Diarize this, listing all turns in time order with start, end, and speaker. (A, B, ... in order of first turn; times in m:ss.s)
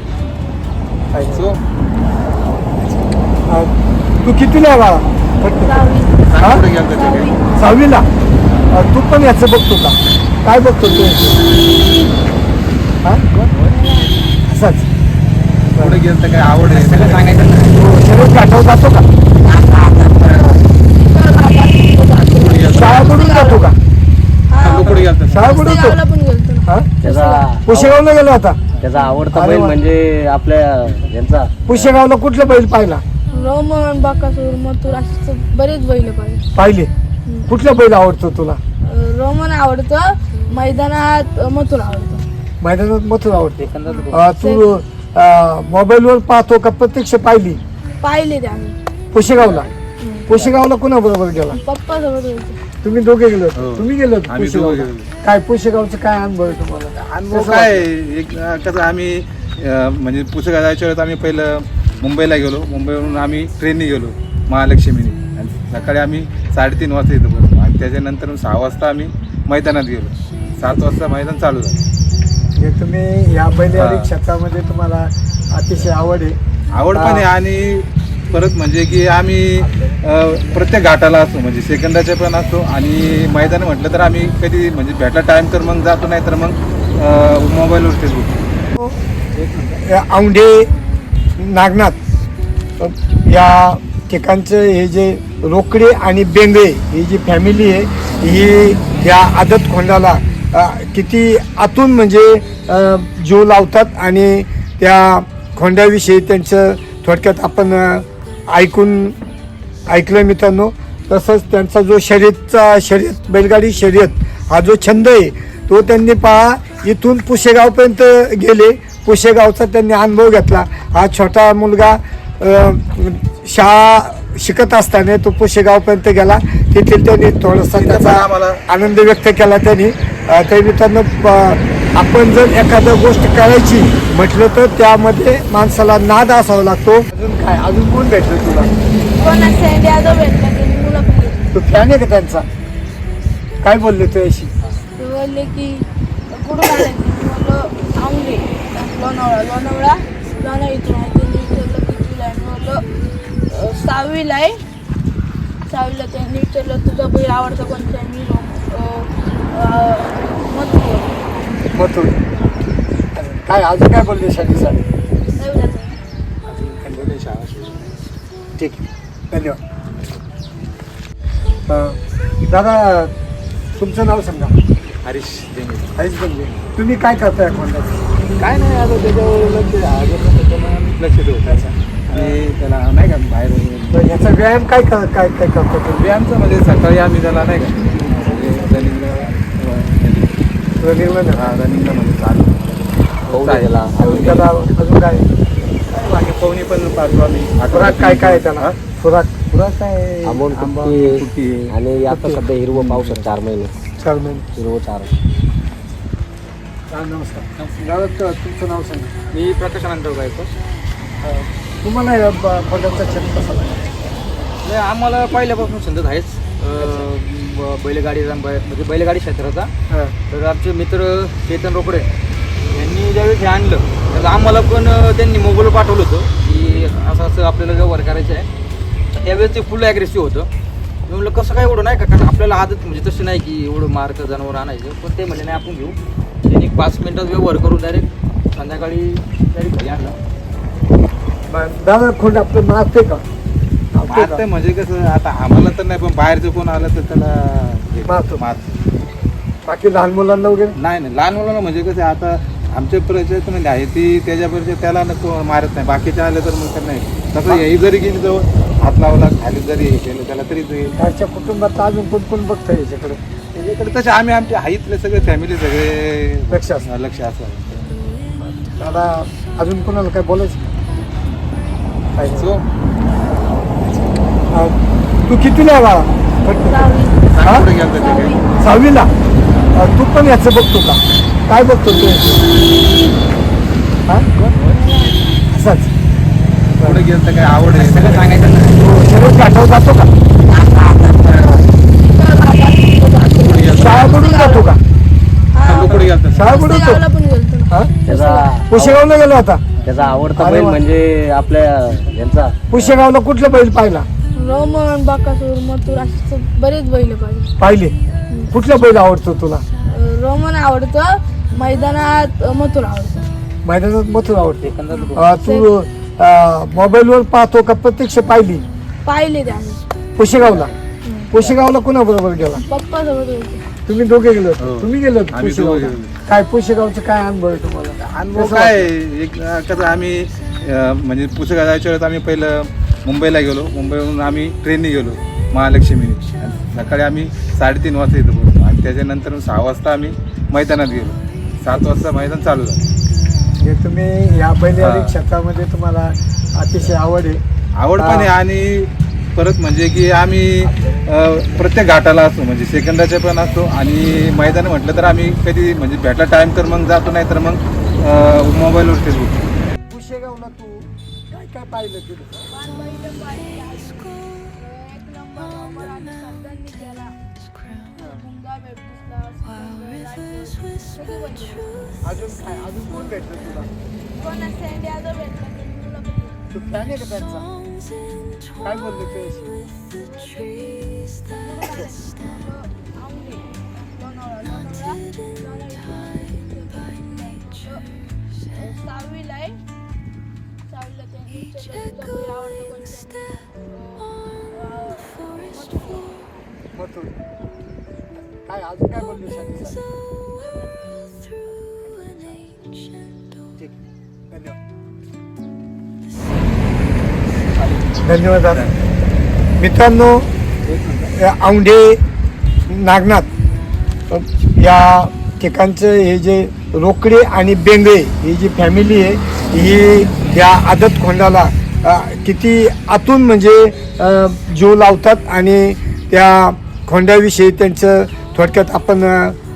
0:01.1-0:01.4 A
0:01.3-0:01.6 B
0:03.5-0:03.7 A
0:04.2-0:06.6 A
0:05.6-0:07.4 C
0:06.3-0:07.3 B
0:07.6-0:08.0 A
0:08.7-0:11.4 A
0:13.5-0:14.3 C
0:14.5-0:14.9 A
0:15.7-0:16.0 A
0:15.8-0:17.4 B
0:16.7-0:17.6 D
0:17.7-0:19.1 A
0:20.1-0:20.4 C
0:21.1-0:23.6 C
0:22.3-0:23.0 B
0:22.7-0:23.8 A
0:24.5-0:27.5 C
0:24.6-0:25.5 B
0:25.3-0:26.0 A
0:26.6-0:26.9 A
0:27.0-0:28.0 E
0:27.6-0:28.7 A
0:28.8-0:32.0 E
0:29.3-0:29.8 A
0:31.7-0:33.0 A
0:33.3-0:36.4 C
0:36.5-0:36.9 A
0:37.5-0:38.6 A
0:38.8-0:42.2 C
0:42.6-0:47.6 A
0:43.6-0:44.2 D
0:44.2-0:44.6 C
0:48.0-0:48.8 C
0:49.1-0:49.7 A
0:49.3-0:49.7 B
0:50.0-0:50.3 C
0:50.3-0:51.6 A
0:51.5-0:52.6 C
0:52.8-0:57.8 A
0:53.6-0:55.1 B
0:57.0-1:11.8 B
1:12.6-1:16.4 A
1:13.8-1:14.1 B
1:16.7-1:28.3 B
1:16.9-1:17.3 A
1:29.4-1:29.7 B
1:29.8-1:30.7 A
1:31.4-1:32.0 A
1:32.8-1:49.2 A
1:49.9-2:18.7 A
2:07.7-2:08.7 B
2:19.2-2:21.4 C
2:21.5-2:22.4 A
2:23.6-2:24.5 A
2:25.0-2:32.8 C
2:33.5-2:34.6 C
2:35.7-2:41.2 C
2:41.7-2:42.2 A
2:43.1-2:44.8 A
2:45.4-2:46.0 C
2:46.4-2:48.0 B
2:48.6-2:49.6 A
2:51.7-2:52.0 A
2:52.5-2:53.1 A
2:53.8-2:54.5 A
2:55.0-2:56.0 B
2:56.0-2:58.0 A
2:58.4-3:04.0 B
3:01.4-3:02.4 A
3:03.9-3:06.0 A
3:05.9-3:10.4 B
3:10.8-3:11.5 A
3:11.3-3:14.4 B
3:13.3-3:13.9 E
3:14.0-3:15.3 A
3:15.9-3:18.8 B
3:17.7-3:19.5 A
3:20.2-3:23.7 E
3:20.3-3:21.7 B
3:22.1-3:22.4 A
3:22.7-3:23.2 B
3:24.0-3:24.5 A
3:24.6-3:25.1 E
3:26.9-3:29.1 A
3:29.3-3:30.5 D
3:31.2-3:33.9 A
3:34.6-3:39.7 D
3:40.3-3:42.0 D
3:42.7-3:48.5 D
3:49.2-3:50.5 D
3:51.1-3:56.0 D
3:56.5-4:00.2 D
4:01.5-4:03.2 A
4:03.9-4:04.4 A
4:04.1-4:08.8 B
4:08.0-4:08.4 A
4:09.6-4:10.8 A
4:10.8-4:20.9 B
4:21.0-4:23.2 A
4:23.5-4:27.9 B
4:26.5-4:26.9 A
4:28.4-4:30.6 A
4:32.2-4:32.5 A
4:32.3-4:32.6 B
4:35.3-4:37.7 A
4:36.7-4:37.3 C
4:37.3-4:38.3 B
4:37.9-4:38.4 C
4:38.6-4:39.1 A
4:39.7-4:42.4 A
4:44.4-4:44.7 D
4:44.6-4:45.2 C
4:45.5-4:45.9 A
4:46.8-4:48.3 B
4:47.7-4:48.7 D
4:48.8-4:50.1 A
4:52.1-4:54.7 C
4:53.4-4:54.2 B
4:53.7-4:54.8 A
4:55.5-4:58.5 C
4:55.6-4:56.5 B
4:56.3-4:57.0 A
4:57.7-4:58.0 A
4:58.1-4:59.0 E
4:58.7-4:59.6 A
4:59.8-5:02.9 E
5:00.3-5:00.8 A
5:02.7-5:04.1 A
5:04.4-5:07.5 C
5:07.6-5:08.0 A
5:08.5-5:09.6 A
5:09.9-5:13.3 C
5:13.6-5:18.6 A
5:14.6-5:15.1 B
5:15.4-5:15.7 C
5:19.0-5:19.8 C
5:20.2-5:20.7 A
5:20.3-5:20.7 B
5:21.0-5:21.3 C
5:21.3-5:22.6 A
5:22.7-5:23.6 C
5:23.9-5:28.9 A
5:24.6-5:26.1 B
5:28.0-5:42.8 B
5:43.6-5:47.4 A
5:44.8-5:45.1 B
5:47.8-5:59.3 B
5:48.0-5:48.3 A
5:59.8-6:02.5 A
6:02.5-6:07.1 C
6:08.0-6:11.7 C
6:12.0-6:13.7 A
6:14.2-6:16.4 C
6:16.5-6:17.5 A
6:18.6-6:19.5 A
6:19.9-6:27.8 C
6:28.5-6:29.6 C
6:30.7-6:36.1 C
6:36.7-6:37.1 A
6:38.2-6:39.8 A
6:41.8-6:42.4 A
6:44.3-6:44.6 A
6:47.6-6:47.9 B
6:48.0-6:48.7 A
6:48.5-6:48.8 B
6:49.6-6:50.3 A
6:50.7-6:51.0 B
6:51.0-6:52.0 A
6:52.7-6:53.3 A
6:54.1-7:09.4 A